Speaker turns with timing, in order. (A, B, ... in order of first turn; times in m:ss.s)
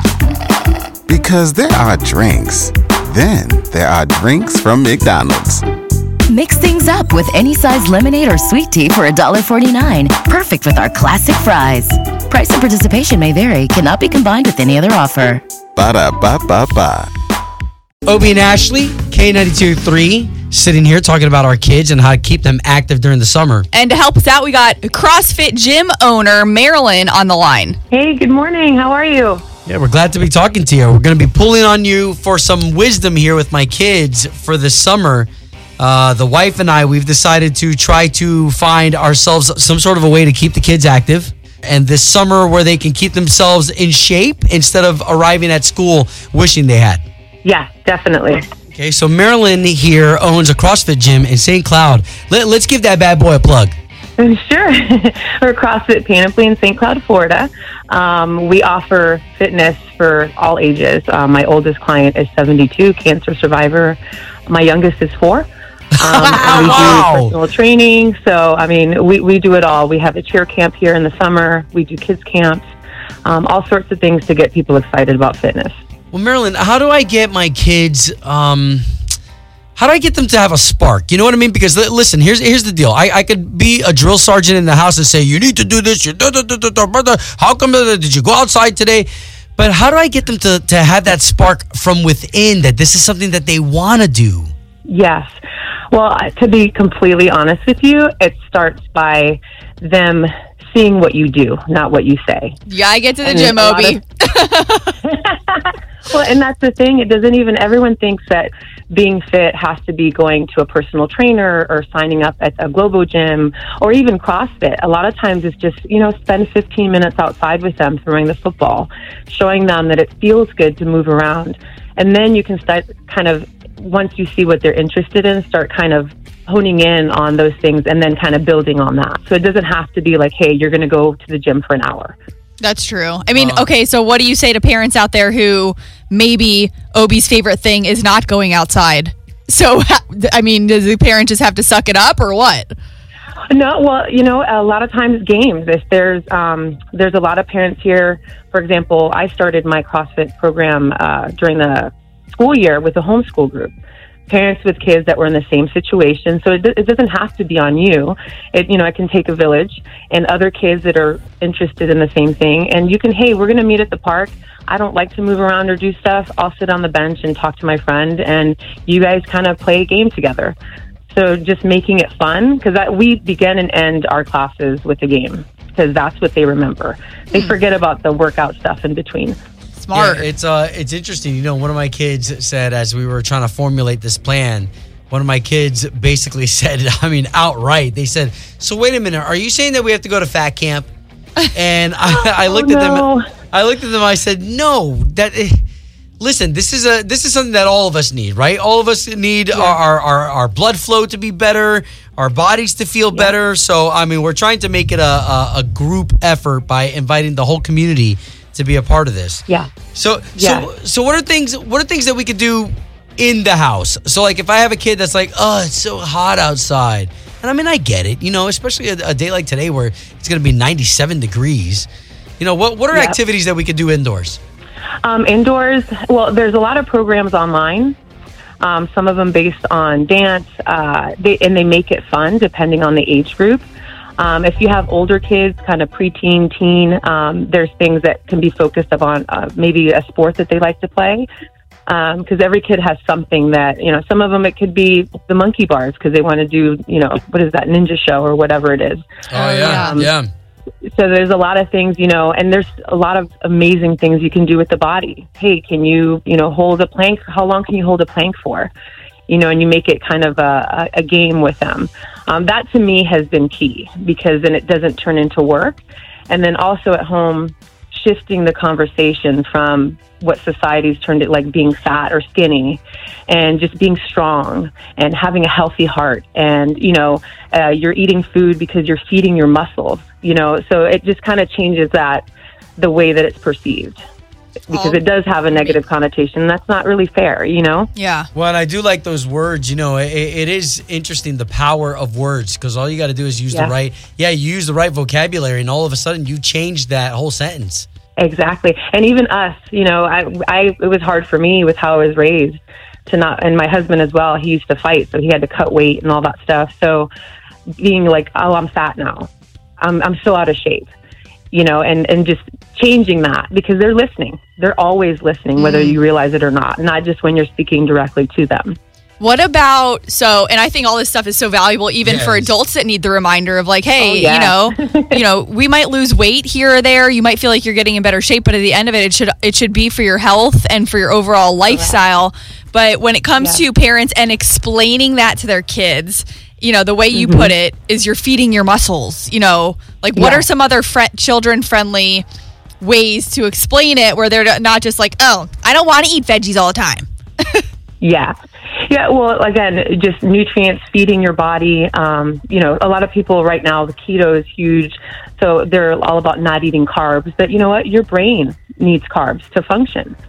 0:01.1-0:05.6 A
0:06.3-0:15.4 B
0:15.8-0:17.1 A
0:18.1-0:23.7 C
0:23.7-0:27.8 D
0:27.9-0:29.4 E
0:29.7-0:47.0 C
0:47.4-0:48.4 E
0:48.7-0:53.8 C
0:54.2-1:05.5 E
1:06.0-1:07.3 C
1:06.0-1:12.7 E
1:13.2-1:15.8 E
1:16.1-1:18.8 C
1:19.8-1:34.5 C
1:34.9-1:35.4 E
1:35.9-1:42.6 E
1:42.7-1:45.0 D
1:43.2-1:44.0 E
1:45.0-2:12.2 E
2:12.6-2:22.7 D
2:13.4-2:13.7 C
2:23.5-2:33.7 E
2:34.3-2:50.6 E
2:51.1-2:59.4 E
2:59.8-3:00.3 D
2:59.9-3:10.9 C
3:11.5-3:15.6 C
3:12.1-3:13.2 E
3:16.2-3:41.9 C
3:30.4-3:30.7 E
3:42.4-3:44.4 C
3:42.9-3:43.2 E
3:45.0-3:48.0 E
3:48.6-3:53.6 E
3:54.2-4:01.3 E
4:01.9-4:10.1 E
4:09.3-4:10.3 C
4:09.4-4:10.0 D
4:10.8-4:18.7 E
4:19.3-4:42.2 E
4:42.8-4:44.0 E
4:44.7-4:47.9 E
4:44.7-4:45.8 D
4:48.0-4:48.3 D
4:48.3-4:57.9 C
4:58.2-5:07.1 E
5:07.8-5:10.9 E
5:11.5-5:18.8 E
5:15.6-5:16.0 D
5:19.2-5:42.2 D
5:22.0-5:22.5 C
5:24.0-5:25.2 E
5:31.7-5:32.0 E
5:37.1-5:37.5 E
5:40.2-5:40.4 E
5:42.8-5:47.6 D
5:48.0-5:48.3 E
5:48.8-6:00.2 E